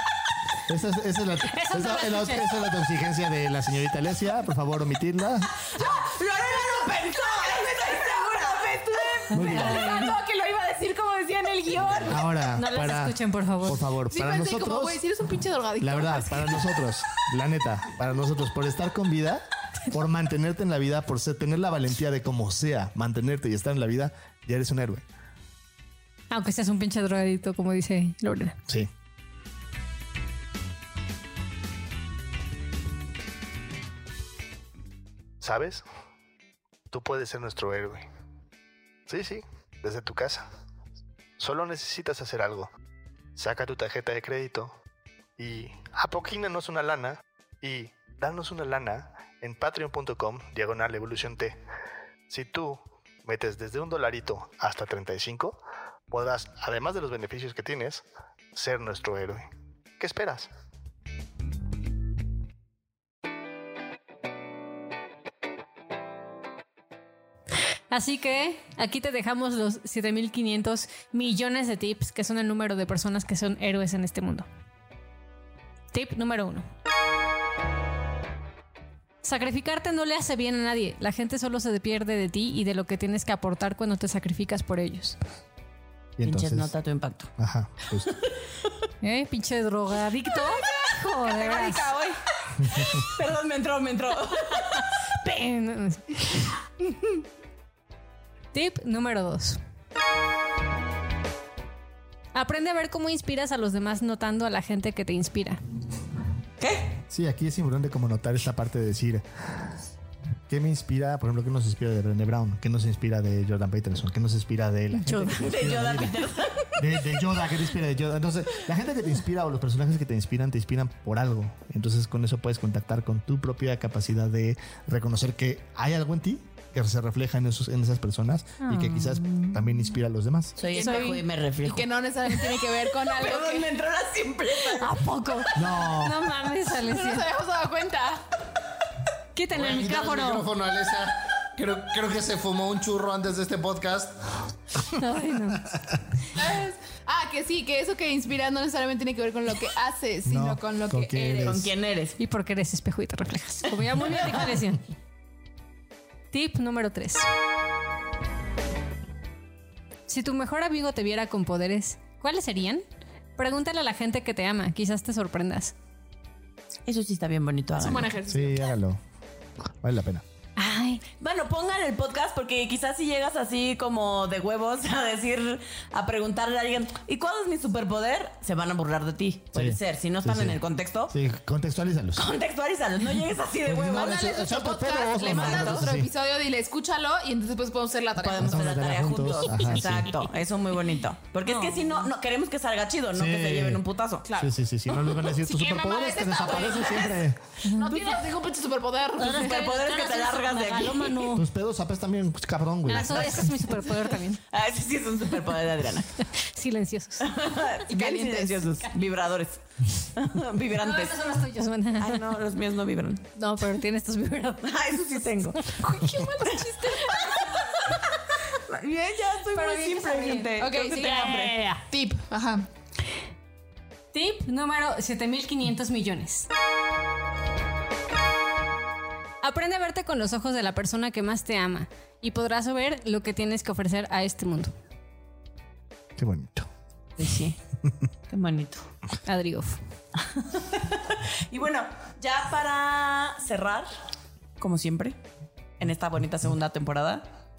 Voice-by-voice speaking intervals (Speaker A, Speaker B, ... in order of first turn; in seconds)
Speaker A: 0.7-5.5, 9.3-9.8, 12.0-15.0, 15.8-25.0, 35.4-35.8, 36.9-38.1, 39.1-40.5, 41.4-42.7, 43.4-44.7, 45.4-51.6, 52.3-55.6, 56.1-58.0, 58.5-59.5, 60.0-60.5, 86.2-86.7, 87.4-88.2, 92.6-93.0, 107.1-109.2, 110.5-116.2, 116.8-130.6, 135.6-136.2, 150.3-151.7, 168.3-169.0, 169.8-170.2, 179.5-182.3, 183.7-186.1, 188.4-190.1, 193.2-193.8, 194.4-197.4, 201.3-203.5, 236.2-236.7
Speaker B: 1.4-2.5, 9.4-10.2, 12.5-13.8, 26.3-28.6, 67.9-74.5, 75.9-76.7, 79.2-85.2, 89.0-91.9, 95.2-96.5, 98.5-99.6, 102.3-105.6, 128.6-129.5, 130.8-131.2, 134.7-137.3, 139.3-140.5, 145.0-145.8, 152.2-154.8, 156.3-157.3, 160.1-162.8, 163.4-165.7, 170.6-171.0, 191.5-191.8, 197.7-198.2, 199.2-201.4, 202.9-204.4, 206.4-207.3, 210.8-212.2, 213.4-214.7, 215.7-216.3, 219.5-221.8, 224.1-226.5, 229.4-234.7, 239.3-239.8
Speaker C: 5.8-9.7, 86.2-87.3, 92.8-94.8, 106.6-107.0, 115.0-117.0, 130.6-131.9, 133.0-135.4, 151.4-152.2, 154.0-154.6, 166.9-168.1, 171.2-181.2, 182.2-184.3, 185.2-185.9, 188.2-194.3, 199.2-201.3, 202.9-206.2, 207.2-211.2, 212.0-213.3, 214.6-215.7, 218.6-221.6, 237.2-237.6, 238.3-238.9, 240.3-243.9, 244.6-245.2, 245.8-247.3
Speaker D: 5.8-12.2, 14.1-16.8, 90.4-92.2, 130.7-133.7, 136.8-138.2, 146.3-151.6, 167.8-168.8, 183.8-188.7, 194.3-194.5, 195.2-197.2, 197.7-200.3, 207.9-208.7, 215.8-217.4, 220.6-221.4, 221.9-222.7
Speaker E: 139.5-144.2